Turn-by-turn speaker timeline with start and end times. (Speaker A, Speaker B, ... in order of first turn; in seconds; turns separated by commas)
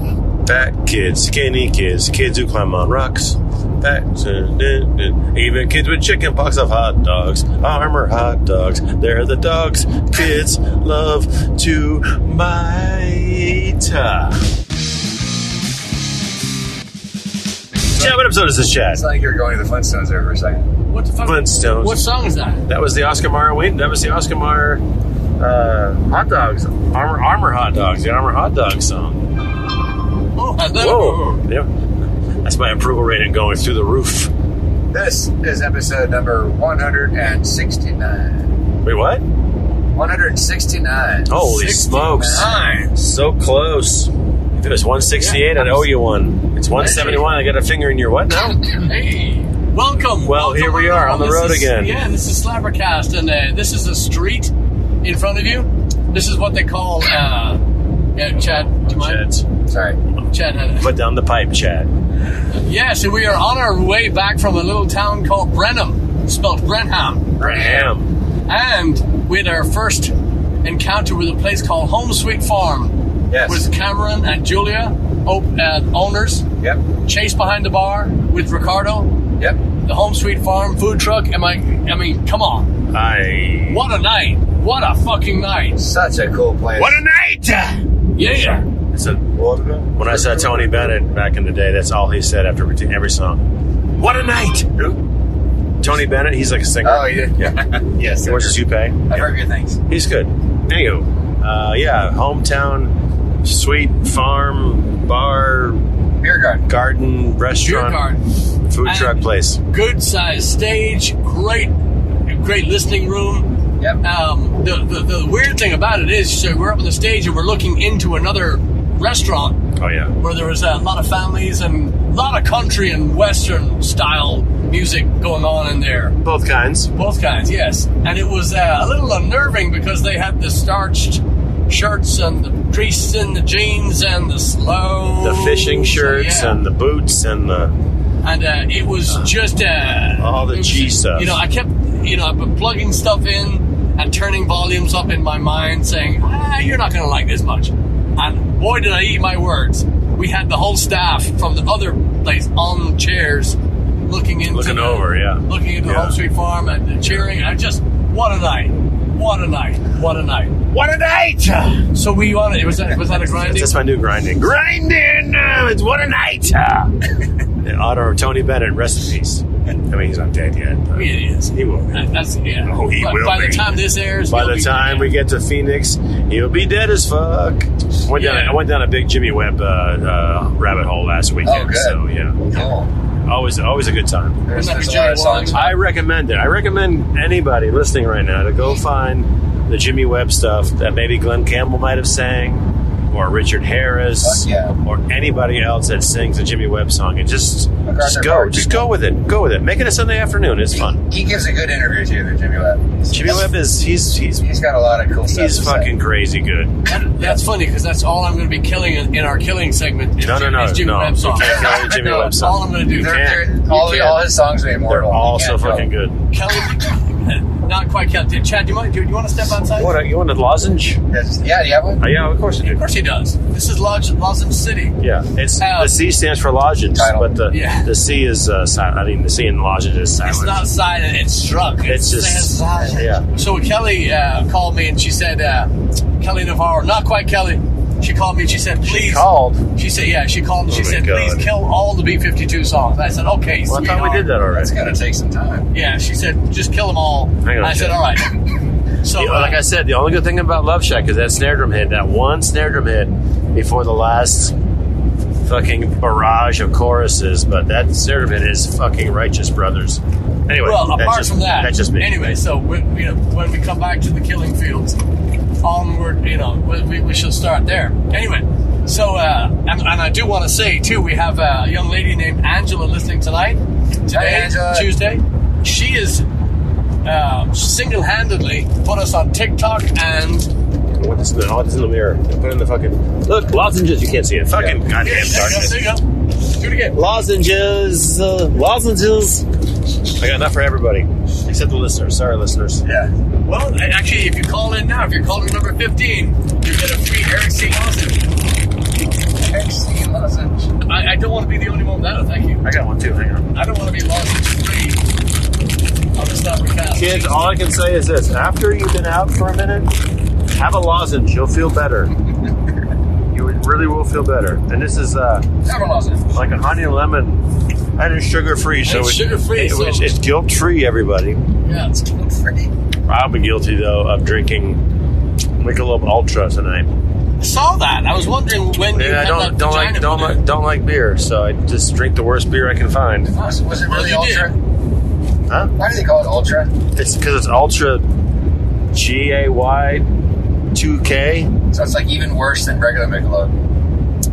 Speaker A: 0.4-14.4, Speaker B: 17.8-18.1, Speaker A: 17.9-19.0, Speaker B: 18.9-20.7, Speaker C: 20.9-22.6, Speaker A: 21.2-22.0, Speaker A: 22.7-24.8, Speaker A: 25.4-29.2, Speaker C: 30.3-31.4, Speaker A: 30.8-31.7, Speaker A: 32.4-34.3, Speaker B: 34.9-38.4, Speaker A: 38.8-39.2, Speaker B: 39.9-41.3, Speaker A: 41.3-48.8, Speaker C: 41.4-42.9, Speaker B: 42.1-42.5, Speaker C: 45.2-45.9, Speaker C: 46.8-47.4, Speaker B: 46.8-47.2, Speaker C: 48.8-57.6, Speaker A: 50.2-52.0, Speaker C: 58.1-59.2, Speaker A: 58.5-59.4, Speaker B: 59.7-60.0, Speaker C: 60.3-60.9, Speaker A: 60.8-61.9, Speaker C: 62.5-67.4, Speaker A: 67.4-68.1, Speaker B: 67.4-67.9, Speaker C: 68.5-76.4, Speaker B: 73.3-73.6, Speaker C: 77.0-79.2, Speaker C: 79.8-82.7, Speaker A: 82.9-83.8, Speaker C: 83.7-85.8, Speaker B: 85.8-87.0, Speaker A: 86.8-93.4, Speaker C: 88.1-88.6, Speaker B: 90.0-90.9, Speaker A: 94.0-94.7, Speaker B: 94.7-95.0, Speaker A: 95.8-97.5, Speaker B: 96.8-98.6, Speaker A: 98.2-99.3, Speaker B: 99.1-99.8, Speaker A: 99.9-102.9, Speaker A: 103.4-105.8, Speaker B: 106.2-106.6, Speaker A: 106.7-108.0, Speaker C: 107.6-108.3, Speaker A: 108.7-109.6, Speaker C: 108.8-111.7, Speaker C: 112.3-119.6, Speaker A: 119.8-120.1, Speaker C: 120.2-126.2, Speaker A: 126.2-126.9, Speaker C: 126.9-136.6, Speaker A: 135.2-137.7, Speaker C: 138.2-160.6, Speaker A: 140.2-141.4, Speaker A: 154.5-156.2, Speaker A: 160.8-161.4, Speaker B: 160.8-161.8, Speaker C: 161.9-163.8, Speaker A: 163.3-167.0, Speaker A: 167.6-172.1, Speaker C: 170.9-175.1, Speaker A: 172.7-182.7, Speaker C: 178.1-178.6, Speaker B: 181.4-182.0, Speaker B: 182.5-182.9, Speaker A: 183.2-184.4, Speaker B: 184.4-185.7, Speaker C: 184.5-185.7, Speaker A: 185.5-201.0, Speaker B: 194.2-194.7, Speaker B: 197.8-198.9, Speaker B: 200.8-203.5, Speaker A: 203.1-204.4, Speaker B: 204.4-205.9, Speaker A: 205.3-206.7, Speaker C: 206.8-213.3, Speaker B: 207.1-207.4, Speaker A: 210.2-214.3, Speaker B: 211.4-212.3, Speaker B: 212.9-215.9, Speaker C: 213.9-214.1, Speaker A: 214.8-216.2, Speaker C: 216.3-220.0, Speaker A: 219.8-221.0, Speaker B: 221.1-222.0, Speaker A: 222.0-222.8, Speaker C: 222.6-225.0, Speaker A: 225.0-230.7, Speaker C: 225.6-225.9, Speaker B: 226.9-227.3, Speaker C: 227.5-227.9, Speaker C: 230.2-244.3, Speaker A: 231.8-233.2, Speaker B: 232.7-233.0, Speaker A: 238.8-239.7, Speaker A: 240.7-241.5, Speaker A: 243.7-244.7, Speaker B: 244.5-245.7, Speaker C: 245.7-248.3, Speaker A: 247.4-248.0, Speaker C: 249.0-249.6, Speaker A: 249.1-254.5, Speaker A: 255.4-262.2, Speaker C: 260.6-265.0, Speaker C: 265.6-276.2, Speaker B: 274.1-274.9, Speaker C: 277.0-280.5, Speaker A: 280.9-285.9, Speaker B: 284.5-284.8, Speaker C: 285.0-287.0, Speaker A: 286.9-289.4, Speaker A: 290.1-292.8, Speaker B: 292.8-293.1, Speaker C: 293.4-298.2, Speaker B: 299.3-300.7, Speaker C: 300.8-302.6, Speaker A: 302.6-303.5, Speaker C: 303.5-305.0, Speaker C: 306.1-307.5, Speaker A: 306.9-309.9, Speaker A: 310.5-312.1, Speaker A: 313.3-315.4, Speaker B: 315.6-316.4, Speaker A: 316.3-317.4, Speaker A: 318.0-321.4, Speaker C: 318.8-320.1, Speaker C: 321.6-322.4, Speaker B: 322.3-322.7, Speaker A: 323.1-324.8, Speaker A: 325.6-326.9, Speaker C: 327.4-330.4, Speaker A: 328.9-333.3, Speaker B: 333.3-334.5, Speaker C: 333.8-334.5, Speaker A: 335.5-335.7, Speaker B: 335.8-336.7, Speaker A: 336.9-338.0, Speaker A: 338.9-340.1, Speaker A: 340.7-341.5, Speaker B: 341.7-343.5